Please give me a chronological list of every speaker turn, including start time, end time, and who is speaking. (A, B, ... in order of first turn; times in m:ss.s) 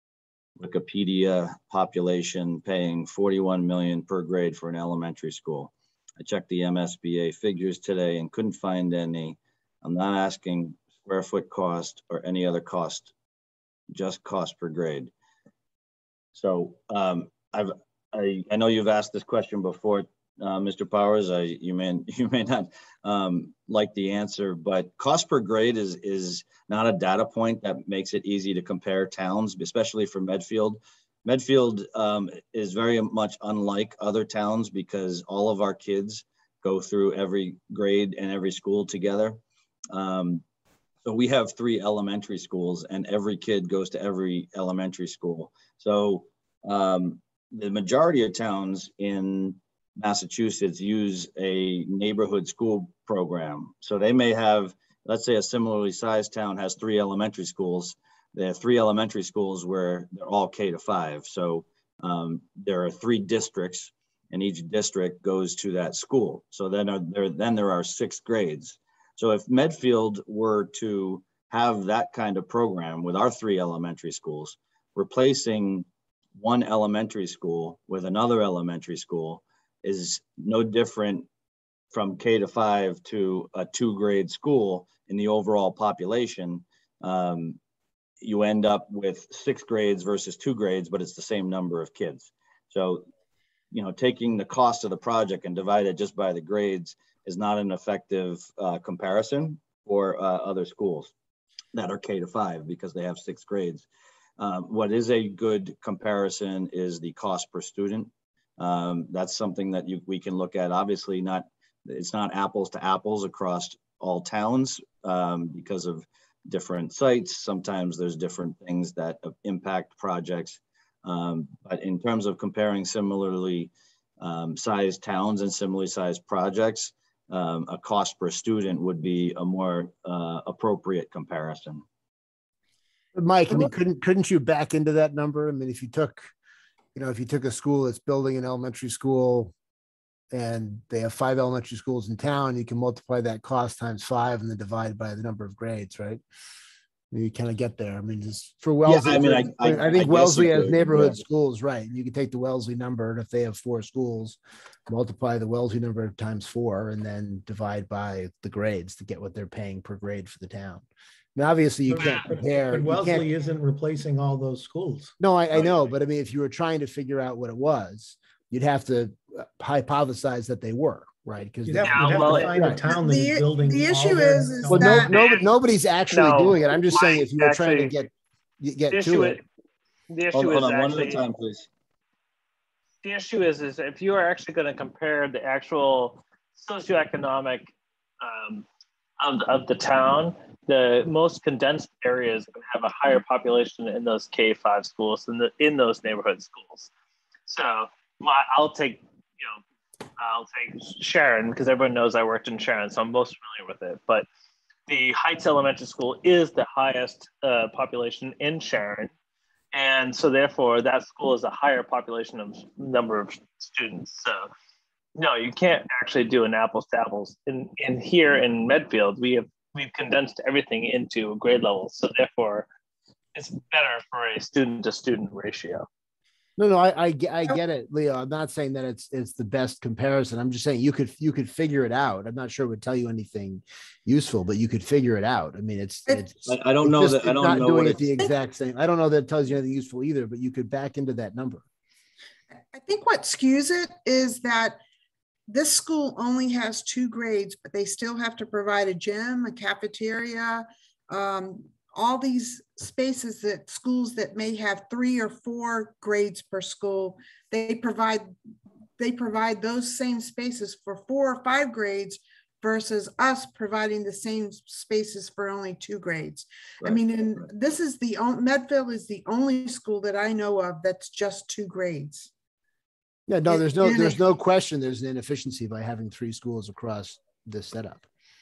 0:00.6-0:13.1 A
0:13.9-0:15.1 A
0:16.4-0:40.4 A
0:41.0-1:21.3 A
1:21.9-1:27.6 A
1:28.2-1:33.1 A
1:33.7-1:41.1 A
1:41.7-1:43.9 A
1:44.4-2:11.8 A
2:13.2-2:16.3 B
2:17.0-2:19.5 B
2:20.3-2:26.2 B
2:27.1-2:43.3 B
2:28.8-2:31.2 A
2:41.9-2:45.2 C
2:42.0-2:42.2 D
2:45.2-2:52.9 B
2:51.6-2:55.2 C
2:51.8-2:52.7 D
2:52.9-2:55.1 E
2:54.7-2:59.4 B
2:55.1-2:55.5 D
2:56.1-2:58.0 D
2:58.9-2:59.4 D
3:00.1-3:01.2 D
3:00.3-3:01.7 A
3:03.0-3:08.6 D
3:09.2-3:16.9 D
3:17.5-3:19.6 D
3:20.2-3:24.3 D
3:24.9-3:29.1 D
3:29.7-3:34.5 D
3:35.2-3:42.7 D
3:43.4-3:45.9 D
3:46.6-4:01.6 B
3:56.5-3:58.1 A
4:02.7-4:04.8 E
4:05.5-4:18.3 E
4:19.0-4:32.3 E
4:33.3-4:38.1 B
4:33.5-4:34.2 E